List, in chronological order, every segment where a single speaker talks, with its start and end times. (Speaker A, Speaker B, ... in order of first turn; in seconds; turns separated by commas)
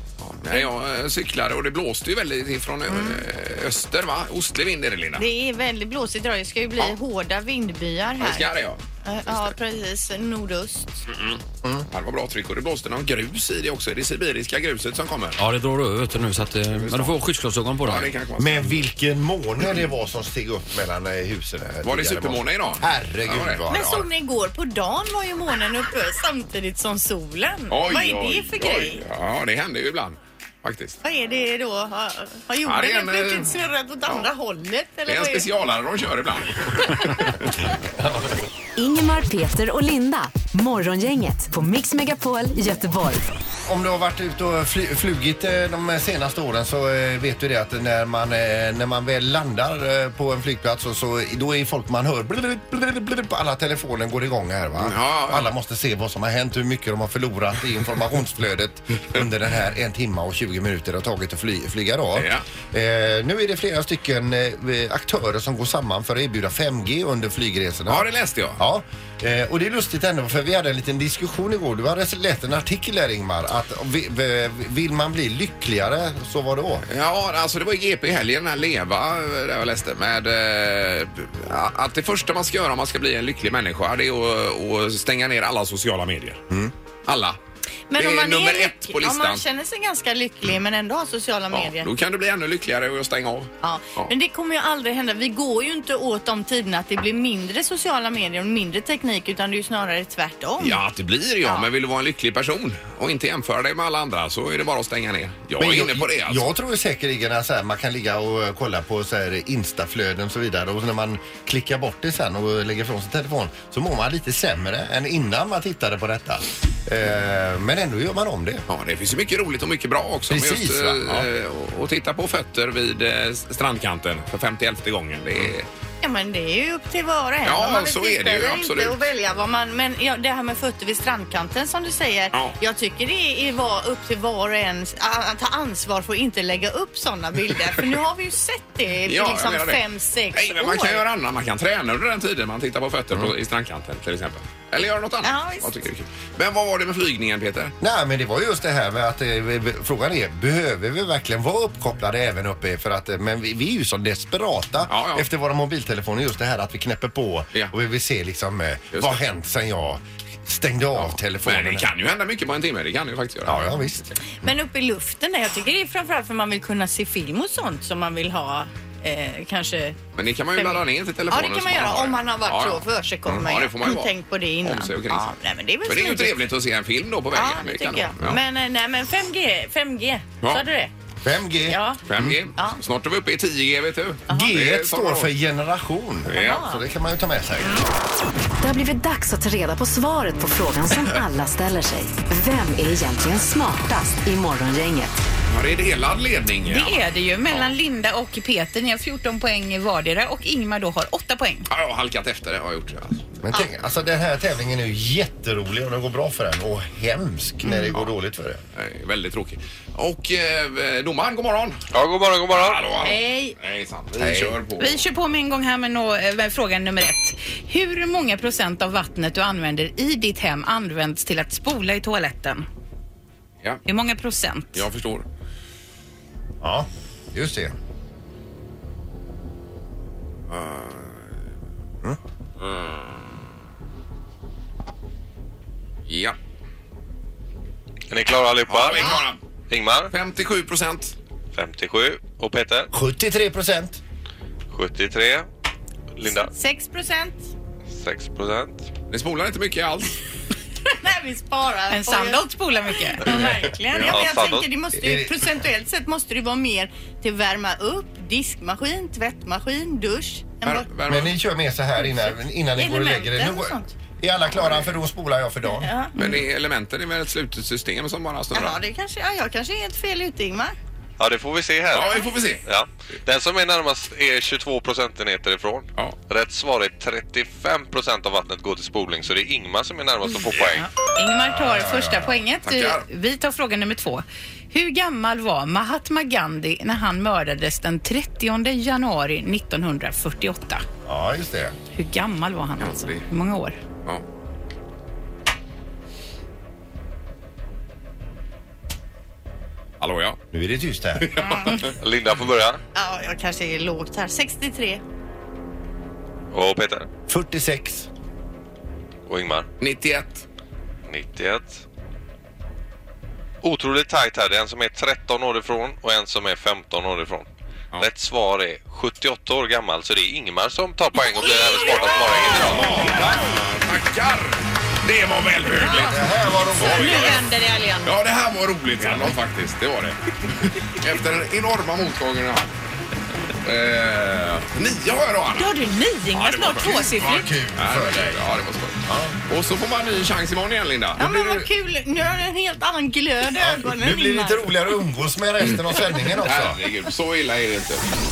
Speaker A: 0.2-5.2, Speaker B: 2.9-3.2, Speaker B: 5.2-8.5, Speaker A: 8.2-8.8, Speaker B: 9.0-10.9, Speaker A: 11.1-15.4, Speaker C: 15.4-18.1, Speaker A: 16.7-17.1, Speaker A: 17.8-18.8, Speaker D: 18.4-24.1, Speaker A: 21.8-23.6, Speaker B: 23.7-29.0, Speaker A: 27.7-31.0, Speaker B: 31.0-35.5, Speaker A: 32.6-33.5, Speaker A: 35.0-37.5, Speaker B: 36.9-37.2, Speaker D: 37.9-38.4, Speaker E: 38.8-43.3, Speaker D: 43.6-76.8, Speaker A: 54.8-55.5, Speaker A: 62.1-62.4, Speaker A: 67.9-68.6, Speaker A: 76.9-86.4, Speaker A: 87.0-87.4, Speaker B: 87.9-91.9, Speaker A: 88.0-89.4, Speaker A: 91.5-94.1, Speaker B: 93.6-100.8, Speaker A: 100.6-106.5, Speaker D: 105.6-118.6, Speaker A: 118.7-125.7, Speaker D: 120.3-121.3, Speaker B: 126.0-141.0, Speaker A: 127.4-129.0, Speaker A: 139.1-147.7, Speaker B: 145.2-145.7, Speaker D: 147.8-161.9, Speaker A: 154.9-155.2, Speaker A: 158.9-159.2, Speaker A: 160.9-163.7, Speaker D: 163.4-164.5, Speaker B: 164.4-170.0, Speaker A: 170.1-175.3, Speaker B: 170.6-176.4, Speaker A: 175.8-178.4, Speaker B: 177.3-180.9, Speaker D: 181.2-182.3, Speaker B: 181.7-182.0, Speaker A: 182.1-185.3, Speaker D: 184.3-187.8, Speaker A: 186.3-186.6, Speaker B: 186.3-186.8, Speaker E: 188.6-195.2, Speaker A: 195.5-197.7, Speaker F: 196.7-201.7, Speaker A: 201.7-203.3, Speaker D: 203.4-208.6, Speaker A: 208.7-211.8, Speaker G: 211.9-212.8, Speaker A: 212.5-215.0, Speaker F: 213.0-213.6, Speaker D: 214.2-214.6, Speaker F: 214.8-222.7, Speaker F: 223.8-224.8, Speaker A: 224.7-225.2, Speaker D: 226.6-227.7, Speaker A: 230.5-231.2, Speaker A: 232.6-233.2, Speaker A: 236.1-236.3, Speaker G: 238.1-240.1, Speaker A: 238.7-239.4, Speaker A: 240.1-241.1, Speaker G: 241.5-242.9, Speaker D: 242.9-244.0, Speaker G: 244.7-245.5, Speaker G: 246.2-246.5, Speaker B: 246.3-247.5, Speaker G: 247.9-248.9, Speaker A: 249.1-250.2, Speaker B: 251.0-252.5, Speaker F: 251.9-253.5, Speaker B: 253.1-260.9, Speaker A: 253.9-254.2, Speaker G: 254.0-254.7, Speaker D: 254.9-255.5, Speaker A: 260.6-261.3, Speaker D: 261.1-265.9, Speaker B: 262.8-263.9, Speaker A: 264.5-264.9, Speaker B: 265.7-266.1, Speaker A: 266.2-268.8, Speaker B: 268.5-270.7, Speaker G: 271.2-280.9, Speaker A: 271.9-272.6, Speaker F: 280.7-290.8, Speaker D: 281.5-282.4, Speaker A: 282.6-283.0, Speaker D: 291.0-291.7, Speaker F: 291.9-293.8, Speaker A: 292.8-293.2, Speaker A: 300.0-300.4, Speaker D: 300.5-301.3, Speaker A: 301.2-301.9, Speaker B: 301.4-301.9, Speaker G: 302.0-302.8, Speaker B: 302.9-305.0, Speaker G: 306.5-307.1, Speaker D: 307.3-308.1, Speaker G: 309.3-309.7, Speaker A: 309.8-310.4, Speaker G: 311.1-311.8, Speaker G: 313.6-323.1, Speaker A: 322.2-327.4, Speaker D: 325.8-327.4, Speaker B: 326.9-328.1, Speaker A: 328.0-332.7, Speaker A: 333.6-335.8, Speaker B: 335.6-337.1, Speaker A: 336.3-341.6, Speaker F: 336.6-337.5, Speaker D: 337.3-338.5, Speaker D: 339.0-339.4, Speaker B: 341.2-344.7, Speaker D: 343.6-346.8, Speaker A: 346.4-348.0